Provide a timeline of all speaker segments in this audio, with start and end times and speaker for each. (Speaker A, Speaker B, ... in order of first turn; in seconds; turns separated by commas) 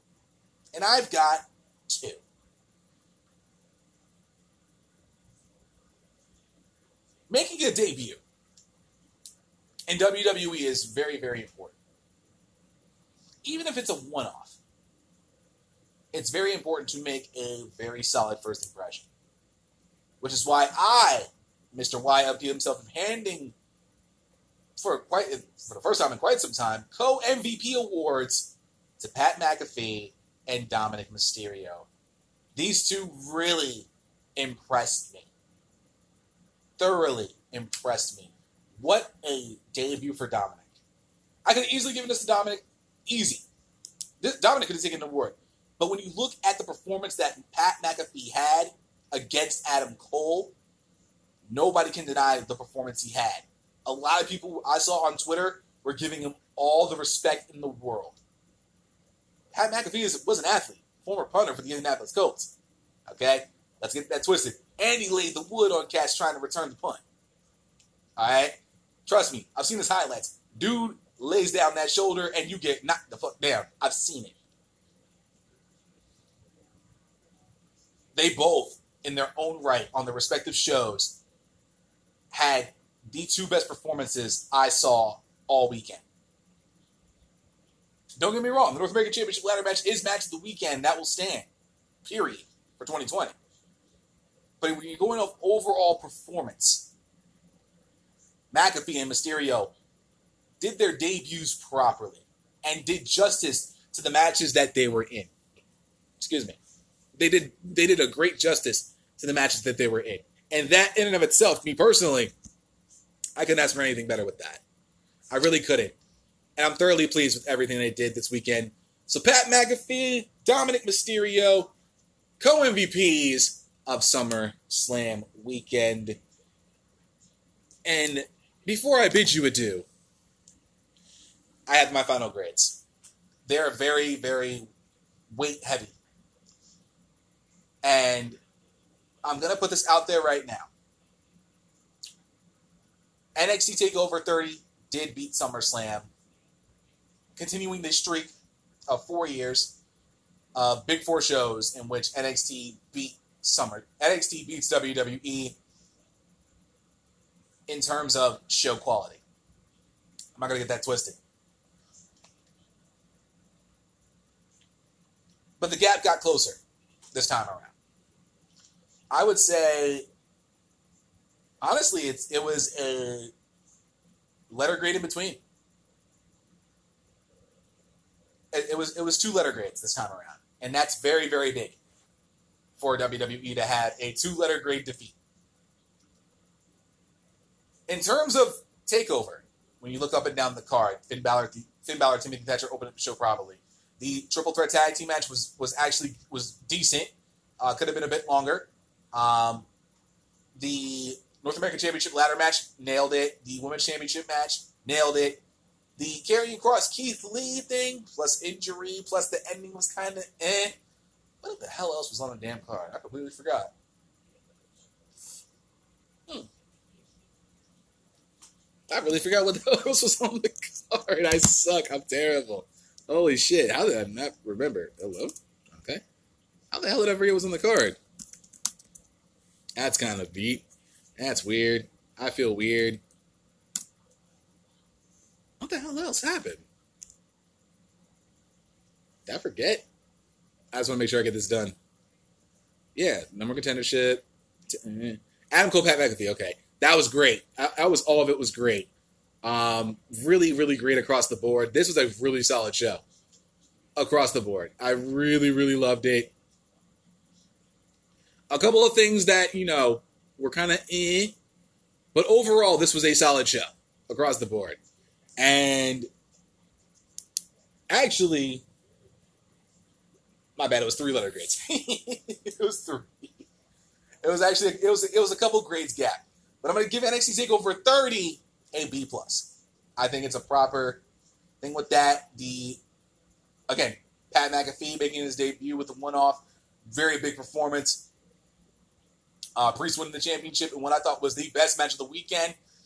Speaker A: 0.7-2.2, Speaker A: 7.3-8.2, Speaker A: 9.9-11.8, Speaker A: 13.4-14.6, Speaker A: 16.1-19.1, Speaker A: 20.2-23.5, Speaker A: 24.8-31.9, Speaker A: 32.5-35.3, Speaker A: 36.8-40.7, Speaker A: 41.5-43.4, Speaker A: 44.2-50.5, Speaker A: 51.5-58.1, Speaker A: 59.5-62.5, Speaker A: 63.1-67.0, Speaker A: 68.2-74.3, Speaker A: 78.1-81.2, Speaker A: 82.3-86.0, Speaker A: 88.2-91.5, Speaker A: 92.0-93.3, Speaker A: 94.6-96.9, Speaker A: 98.5-99.7, Speaker A: 100.6-105.3, Speaker A: 106.2-106.6, Speaker A: 107.2-112.3, Speaker A: 113.4-114.6, Speaker A: 115.3-116.0, Speaker A: 116.6-121.7, Speaker A: 122.4-126.2, Speaker A: 127.8-129.8, Speaker A: 131.7-132.8, Speaker A: 133.4-134.7, Speaker A: 135.3-135.9, Speaker A: 137.8-138.4, Speaker A: 139.2-140.7, Speaker A: 143.3-146.1, Speaker A: 147.3-148.3, Speaker A: 148.9-149.8, Speaker A: 150.5-155.6, Speaker A: 157.7-159.2, Speaker A: 160.3-161.2, Speaker A: 165.6-166.6, Speaker A: 167.1-167.7, Speaker A: 169.1-170.1, Speaker A: 171.6-173.3, Speaker A: 174.5-175.4, Speaker A: 178.5-181.8, Speaker A: 182.8-185.2, Speaker A: 187.9-199.7, Speaker A: 200.6-205.4, Speaker A: 206.0-210.8, Speaker A: 211.4-213.7, Speaker A: 218.9-226.0, Speaker A: 226.7-228.0, Speaker A: 229.8-230.6, Speaker A: 231.2-233.0, Speaker A: 235.6-236.7, Speaker A: 239.2-239.8, Speaker A: 240.7-241.8, Speaker A: 242.9-248.9, Speaker A: 249.4-253.0, Speaker A: 254.0-256.3, Speaker A: 258.5-261.4, Speaker A: 262.1-264.8, Speaker A: 265.4-266.1, Speaker A: 267.9-268.6, Speaker A: 270.6-273.5, Speaker A: 274.2-281.0, Speaker A: 281.6-282.8, Speaker A: 283.7-288.1, Speaker A: 289.6-292.6